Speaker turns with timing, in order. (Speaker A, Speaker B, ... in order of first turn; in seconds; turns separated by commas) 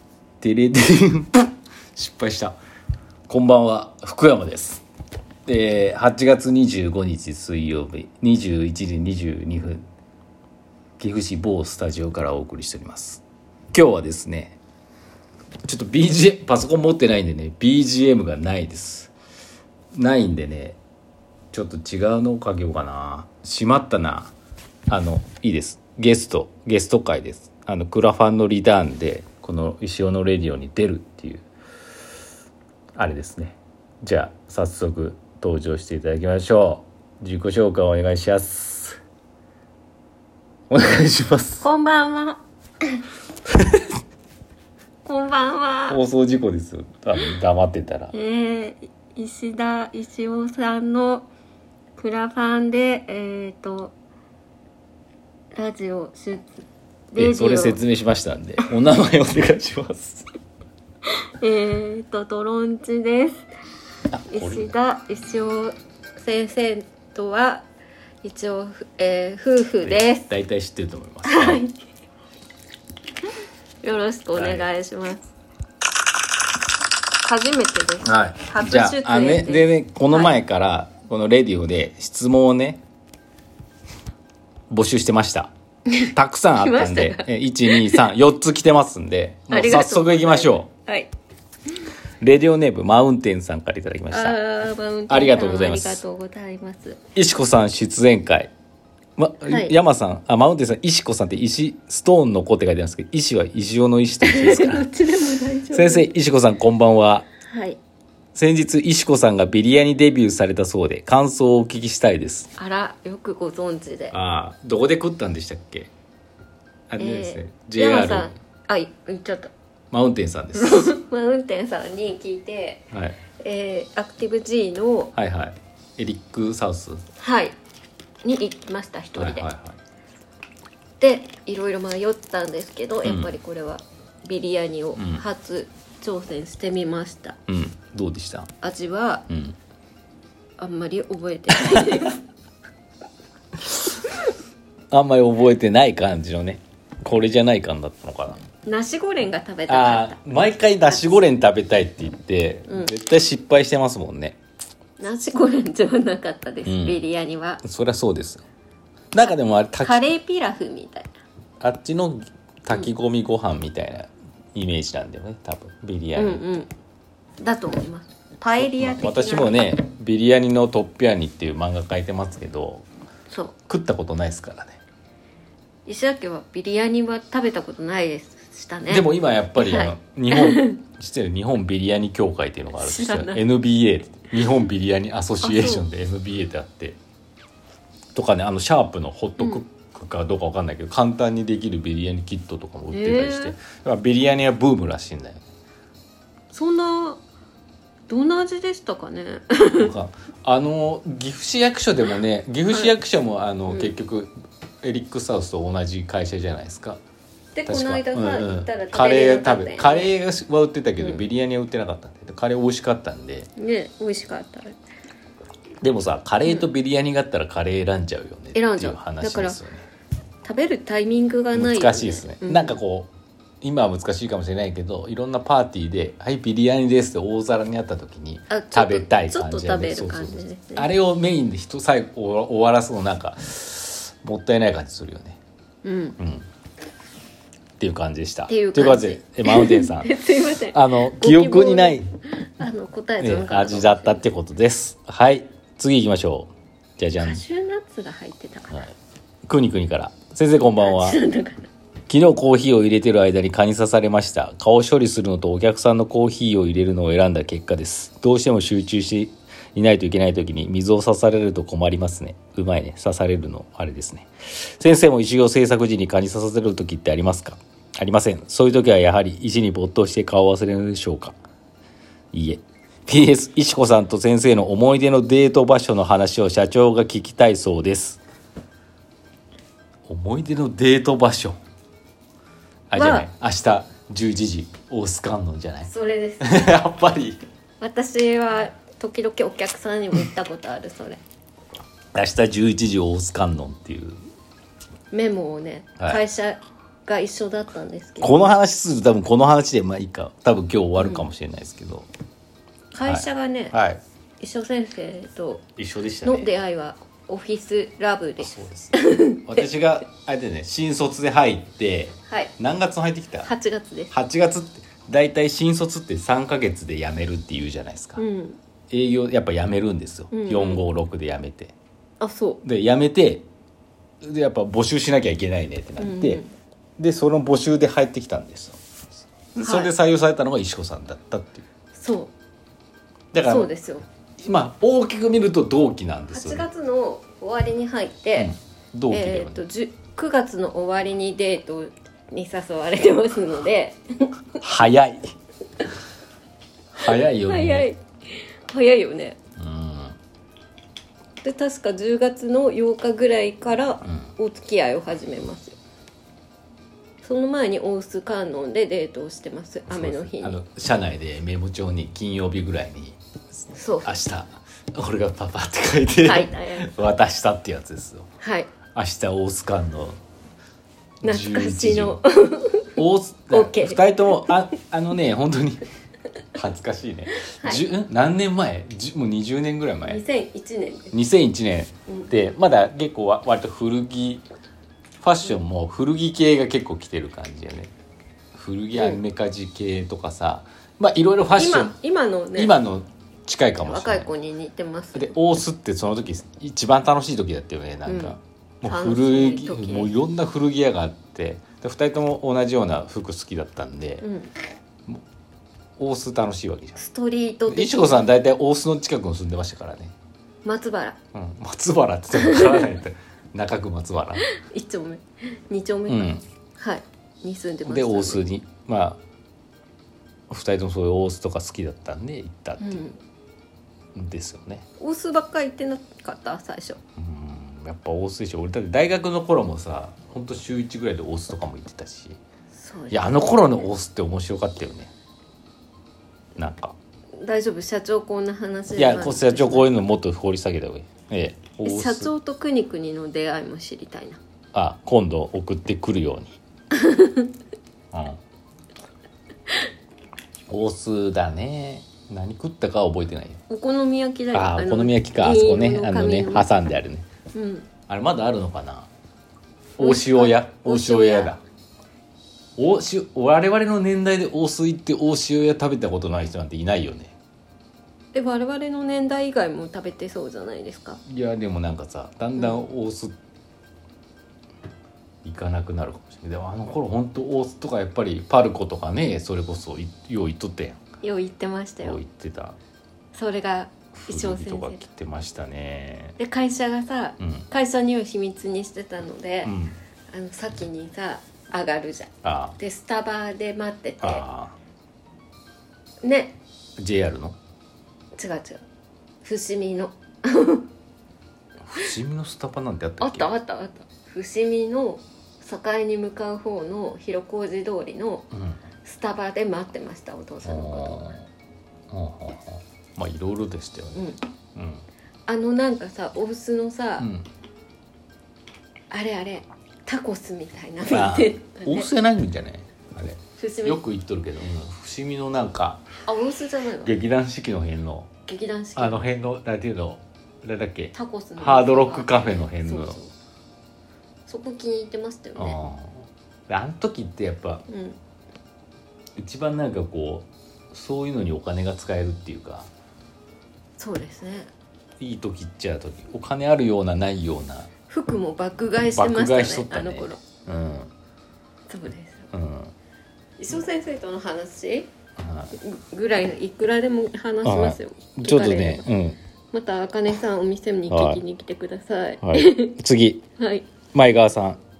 Speaker A: 0.4-2.6, Speaker A: 3.3-4.8, Speaker A: 5.5-9.8, Speaker A: 11.0-14.6, Speaker A: 15.7-19.1, Speaker A: 19.9-20.8, Speaker A: 21.5-24.3, Speaker A: 24.9-31.4, Speaker A: 33.0-39.0, Speaker A: 40.7-41.6, Speaker B: 41.6-42.4, Speaker B: 45.0-46.0, Speaker A: 45.9-48.1, Speaker B: 48.1-51.3, Speaker B: 52.0-53.9, Speaker B: 55.5-56.4, Speaker B: 57.1-57.8, Speaker A: 57.1-60.2, Speaker B: 61.4-63.4, Speaker A: 64.1-64.7, Speaker B: 64.3-67.7, Speaker B: 68.2-70.2, Speaker A: 69.8-71.6, Speaker B: 71.2-71.8, Speaker B: 73.8-75.3, Speaker A: 74.3-74.7, Speaker B: 77.2-80.3, Speaker A: 78.0-82.8, Speaker A: 84.7-85.5, Speaker B: 85.9-88.0, Speaker A: 86.1-90.7, Speaker B: 89.5-91.1, Speaker A: 92.2-94.4, Speaker B: 94.1-97.0, Speaker A: 95.1-96.0, Speaker A: 97.2-98.5, Speaker A: 99.2-104.9, Speaker B: 99.5-99.7, Speaker B: 104.2-106.1, Speaker A: 105.7-107.3, Speaker B: 107.5-107.8, Speaker A: 108.3-112.5, Speaker B: 112.5-114.1, Speaker A: 114.1-115.9, Speaker A: 116.9-118.3, Speaker B: 117.0-119.5, Speaker A: 119.9-120.9, Speaker B: 120.5-125.1, Speaker A: 122.9-123.2, Speaker A: 125.1-127.0, Speaker B: 127.2-127.5, Speaker B: 128.2-129.5, Speaker A: 129.1-129.8, Speaker B: 131.0-137.4, Speaker A: 133.0-133.3, Speaker A: 134.9-135.2, Speaker A: 137.5-138.5, Speaker B: 138.6-139.3, Speaker A: 139.3-139.6, Speaker B: 140.6-142.2, Speaker A: 141.6-142.1, Speaker A: 144.9-148.4, Speaker B: 148.6-150.2, Speaker A: 149.7-154.4, Speaker B: 150.9-151.2, Speaker B: 152.7-152.9, Speaker B: 155.0-157.6, Speaker A: 156.7-157.0, Speaker A: 157.6-158.4, Speaker A: 159.1-160.0, Speaker B: 159.2-161.1, Speaker A: 161.6-166.4, Speaker B: 166.2-166.7, Speaker B: 167.4-169.7, Speaker A: 168.5-172.8, Speaker B: 173.3-173.5, Speaker A: 173.7-174.8, Speaker B: 175.8-180.8, Speaker A: 178.9-187.0, Speaker B: 182.8-183.4, Speaker B: 185.4-185.8, Speaker A: 188.1-195.4, Speaker B: 189.4-189.6, Speaker B: 192.9-193.6, Speaker B: 196.5-197.2, Speaker B: 198.1-199.9, Speaker A: 199.8-207.0, Speaker B: 207.5-210.1, Speaker A: 207.7-213.5, Speaker B: 211.0-211.2, Speaker B: 213.6-214.8, Speaker A: 215.8-219.8, Speaker B: 218.5-219.6, Speaker B: 220.4-222.8, Speaker A: 221.5-223.1, Speaker A: 223.6-235.4, Speaker B: 228.5-230.9, Speaker B: 235.8-236.2, Speaker A: 236.2-236.5, Speaker A: 237.8-240.1, Speaker B: 238.5-244.2, Speaker A: 240.7-242.1, Speaker A: 243.2-247.4, Speaker B: 247.2-248.8, Speaker A: 249.5-251.2, Speaker B: 250.6-251.7, Speaker A: 252.1-271.4, Speaker A: 272.3-278.2, Speaker A: 280.1-281.6, Speaker A: 282.9-285.9, Speaker B: 282.9-283.3, Speaker B: 285.9-286.7, Speaker A: 286.4-287.4, Speaker B: 287.8-291.2, Speaker A: 292.1-294.2, Speaker B: 295.1-298.5, Speaker A: 298.2-302.1, Speaker B: 301.0-301.2, Speaker B: 302.9-303.8, Speaker A: 303.0-304.0, Speaker B: 304.4-305.6, Speaker A: 305.8-306.5, Speaker B: 306.2-309.6, Speaker A: 308.4-313.5, Speaker B: 312.3-312.5, Speaker B: 313.4-314.1, Speaker A: 314.1-318.2, Speaker B: 318.2-318.6, Speaker A: 318.9-321.7, Speaker B: 320.3-320.8, Speaker B: 322.2-322.6, Speaker A: 322.6-323.4, Speaker A: 324.2-326.4, Speaker B: 326.0-326.5, Speaker A: 327.0-328.8, Speaker A: 329.5-331.6, Speaker B: 329.6-329.9, Speaker B: 331.9-332.3, Speaker A: 333.3-333.7, Speaker B: 333.4-334.0, Speaker A: 334.4-336.6, Speaker B: 336.3-338.5, Speaker A: 338.4-339.6, Speaker B: 339.1-344.3, Speaker A: 344.6-345.3, Speaker A: 346.9-347.9, Speaker B: 347.1-349.4, Speaker A: 349.6-350.2, Speaker B: 351.4-355.8, Speaker B: 357.2-360.6, Speaker A: 359.9-363.2, Speaker B: 363.7-364.1, Speaker A: 364.0-368.3, Speaker B: 366.2-366.9, Speaker B: 368.4-368.7, Speaker A: 368.9-370.2, Speaker A: 371.2-372.2, Speaker B: 371.2-373.0, Speaker A: 372.9-375.8, Speaker B: 373.5-374.5, Speaker A: 376.5-380.2, Speaker B: 377.4-377.9, Speaker B: 380.0-381.1, Speaker A: 381.1-384.4, Speaker A: 385.2-387.9, Speaker A: 388.5-391.9, Speaker B: 391.6-392.7, Speaker A: 392.6-394.3, Speaker B: 393.8-395.4, Speaker A: 395.1-404.2, Speaker B: 398.0-400.1, Speaker B: 404.2-404.5, Speaker A: 406.0-407.0, Speaker B: 407.0-408.3, Speaker A: 407.7-410.1, Speaker B: 410.6-411.1, Speaker A: 411.3-414.4, Speaker B: 412.4-412.8, Speaker B: 414.5-418.4, Speaker A: 416.1-416.4, Speaker A: 417.8-419.2, Speaker A: 420.5-423.0, Speaker B: 422.8-423.2, Speaker A: 424.1-424.8, Speaker B: 425.0-427.0, Speaker A: 427.2-432.4, Speaker B: 432.7-433.9, Speaker A: 433.1-435.1, Speaker A: 436.6-436.9, Speaker B: 437.4-440.1, Speaker A: 439.0-442.3, Speaker B: 441.8-444.4, Speaker A: 444.7-446.6, Speaker B: 446.9-447.5, Speaker A: 448.1-448.4, Speaker A: 450.7-453.6, Speaker B: 453.7-456.7, Speaker A: 454.5-457.2, Speaker B: 457.5-457.9, Speaker A: 458.1-459.1, Speaker A: 460.0-461.6, Speaker B: 460.0-461.5, Speaker A: 462.8-467.3, Speaker B: 468.3-471.2, Speaker A: 471.2-473.3, Speaker A: 475.4-481.0, Speaker B: 481.2-482.2, Speaker A: 482.0-482.8, Speaker B: 483.3-485.0, Speaker A: 484.1-486.4, Speaker B: 486.4-489.8, Speaker A: 487.4-487.6, Speaker A: 489.6-490.0, Speaker B: 490.3-494.4, Speaker A: 492.4-492.8, Speaker A: 494.2-494.8, Speaker B: 496.2-496.6, Speaker A: 497.0-497.6, Speaker B: 498.4-498.8, Speaker B: 499.4-500.9, Speaker A: 501.8-503.5, Speaker B: 503.2-508.5, Speaker A: 508.5-508.8, Speaker B: 509.0-511.3, Speaker A: 510.6-511.4, Speaker A: 512.1-515.0, Speaker B: 514.1-514.4, Speaker B: 515.5-517.3, Speaker A: 517.2-517.5, Speaker B: 519.1-522.1, Speaker A: 521.0-526.1, Speaker B: 523.6-524.0, Speaker B: 526.2-527.1, Speaker A: 527.0-528.3, Speaker B: 528.5-529.3, Speaker A: 529.0-533.2, Speaker B: 531.1-533.3, Speaker B: 534.5-535.8, Speaker A: 535.5-537.8, Speaker B: 537.9-538.2, Speaker A: 539.4-542.9, Speaker B: 544.0-544.7, Speaker A: 545.2-547.9, Speaker B: 548.1-550.4, Speaker A: 549.1-551.1, Speaker B: 551.9-552.5, Speaker A: 552.5-552.9, Speaker B: 553.6-555.1, Speaker A: 555.4-555.7, Speaker B: 555.8-559.1, Speaker A: 557.6-559.4, Speaker B: 559.7-562.9, Speaker A: 561.1-561.4, Speaker A: 562.4-563.4, Speaker B: 563.6-563.9, Speaker A: 564.1-564.8